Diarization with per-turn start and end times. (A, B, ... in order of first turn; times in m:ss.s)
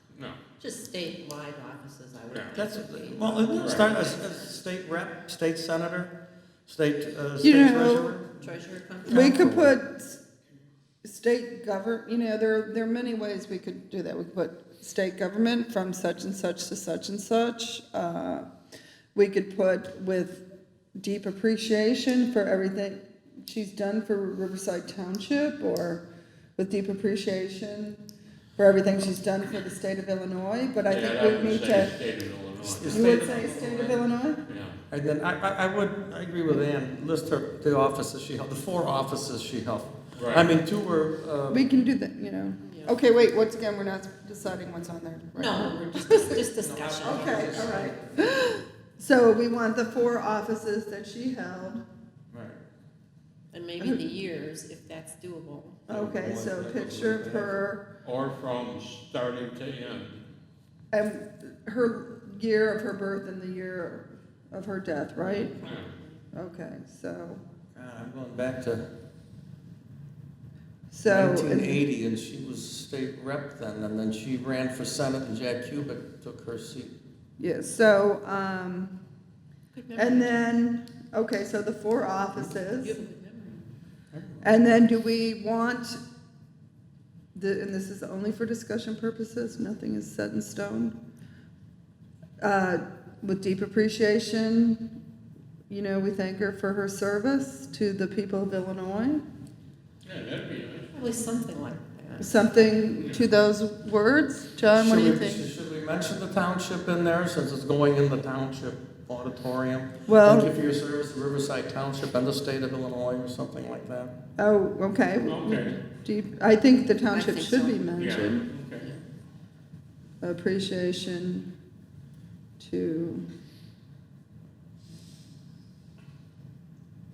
0:00.1-0:00.4 A
0:00.6-0:04.5 B
0:02.5-0:06.1 C
0:03.6-0:04.0 A
0:06.7-0:08.4 C
0:07.4-0:08.2 D
0:08.4-0:09.5 B
0:09.0-0:10.2 D
0:09.1-0:09.8 C
0:11.0-0:18.5 D
0:19.1-0:20.4 D
0:21.0-0:26.0 D
0:26.6-0:28.0 D
0:28.6-0:31.9 D
0:30.9-0:33.1 A
0:32.6-0:34.0 C
0:32.9-0:34.4 D
0:34.4-0:34.8 A
0:34.9-0:41.7 C
0:40.1-0:40.5 A
0:41.5-0:46.4 D
0:42.6-0:43.0 B
0:45.3-0:47.7 B
0:46.6-0:48.4 C
0:47.0-0:51.8 D
0:52.3-0:52.6 C
0:53.5-0:55.9 B
0:53.8-0:54.0 D
0:55.9-0:57.6 C
0:55.9-0:57.9 D
0:58.0-1:00.2 A
1:00.9-1:05.5 D
1:05.2-1:06.2 B
1:05.6-1:05.9 A
1:06.3-1:07.4 D
1:07.8-1:08.9 C
1:10.9-1:11.8 D
1:11.0-1:17.0 C
1:17.4-1:19.0 D
1:19.7-1:20.5 B
1:19.9-1:23.0 D
1:22.7-1:23.7 B
1:24.1-1:24.6 C
1:24.4-1:26.0 D
1:27.3-1:31.0 D
1:32.4-1:34.9 D
1:35.7-1:39.2 D
1:40.0-1:40.9 A
1:40.9-1:42.5 B
1:42.2-1:45.4 D
1:43.0-1:43.2 A
1:44.7-1:54.1 C
1:50.1-1:50.5 D
1:54.4-1:58.4 D
1:55.3-1:55.8 A
1:57.1-1:59.0 B
1:58.0-1:58.9 A
2:00.2-2:01.5 D
2:02.6-2:03.2 D